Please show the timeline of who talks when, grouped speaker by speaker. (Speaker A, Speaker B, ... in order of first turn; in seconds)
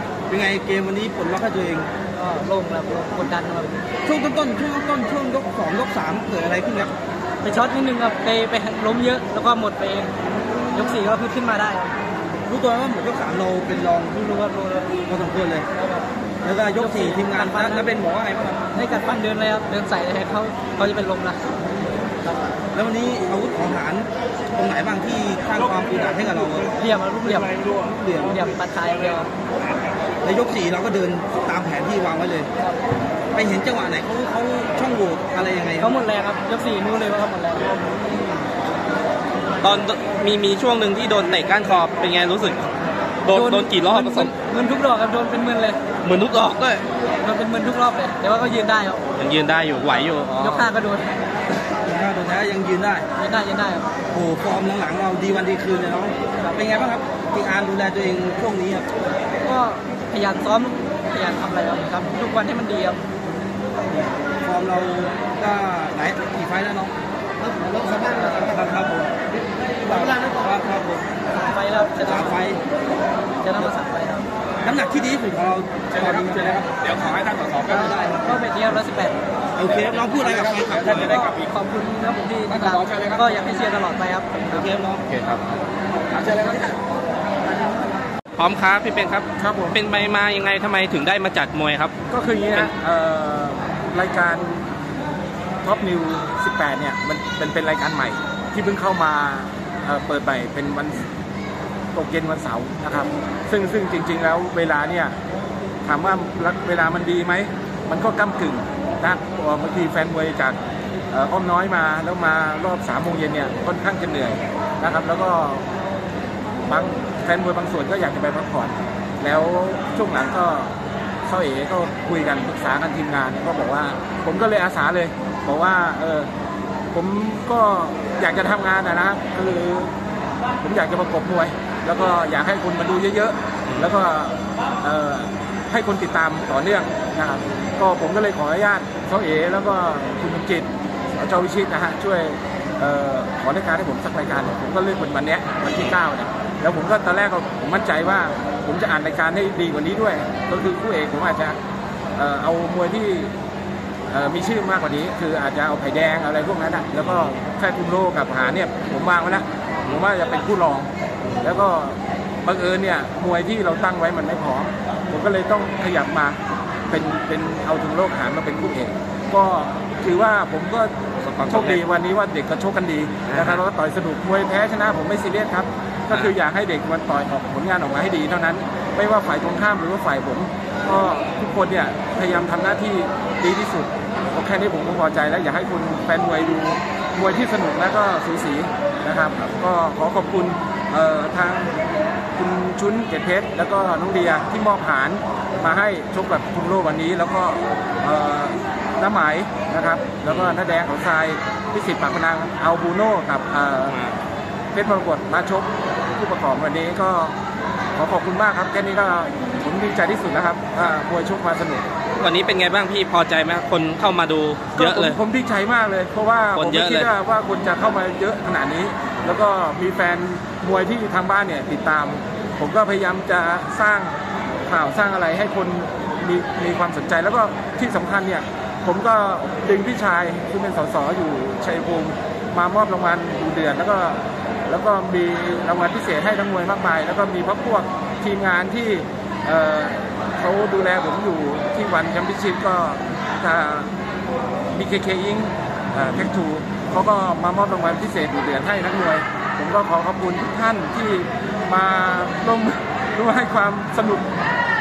Speaker A: 0.3-1.9, 4.1-6.9, 10.5-10.9, 12.5-14.2, 15.1-15.7, 16.4-18.7, 22.7-26.7, 27.3-28.4, 30.2-32.5, 33.3-36.0, 51.8-53.0, 54.1-58.9, 64.4-66.9, 67.9-71.1, 72.0-72.6, 74.6-76.9, 77.6-78.3, 79.6-81.3, 84.5-85.0, 86.2-86.7
Speaker B: 2.1-3.8, 7.4-10.1, 10.7-11.9, 14.1-14.9, 15.8-16.1, 16.8-17.9, 18.7-21.4, 26.8-27.6, 28.2-29.3, 35.8-37.9, 43.3-45.8, 47.2-49.0, 50.4-51.1, 53.2-53.9, 59.4-63.0, 71.3-72.4, 73.4-74.2, 77.7-79.2, 81.0-84.6
Speaker C: 39.6-42.6, 43.2-44.3, 46.0-46.8, 49.2-50.7, 85.1-85.4, 88.4-91.9, 157.0-157.3, 161.2-161.6, 171.2-171.8, 173.3-173.6, 200.2-200.6, 203.9-204.2, 212.2-215.2, 216.5-217.1
Speaker D: 89.4-89.8, 92.1-94.7, 95.6-101.0, 101.9-105.2, 105.8-110.6, 111.1-115.7, 116.7-120.7, 121.2-126.3, 126.9-129.9, 130.6-151.6, 152.2-153.3, 154.1-160.9, 161.4-166.4, 166.9-170.9, 171.4-191.7, 192.4-203.9, 204.7-207.3, 207.9-211.8, 214.8-224.1, 224.7-243.9, 244.7-254.2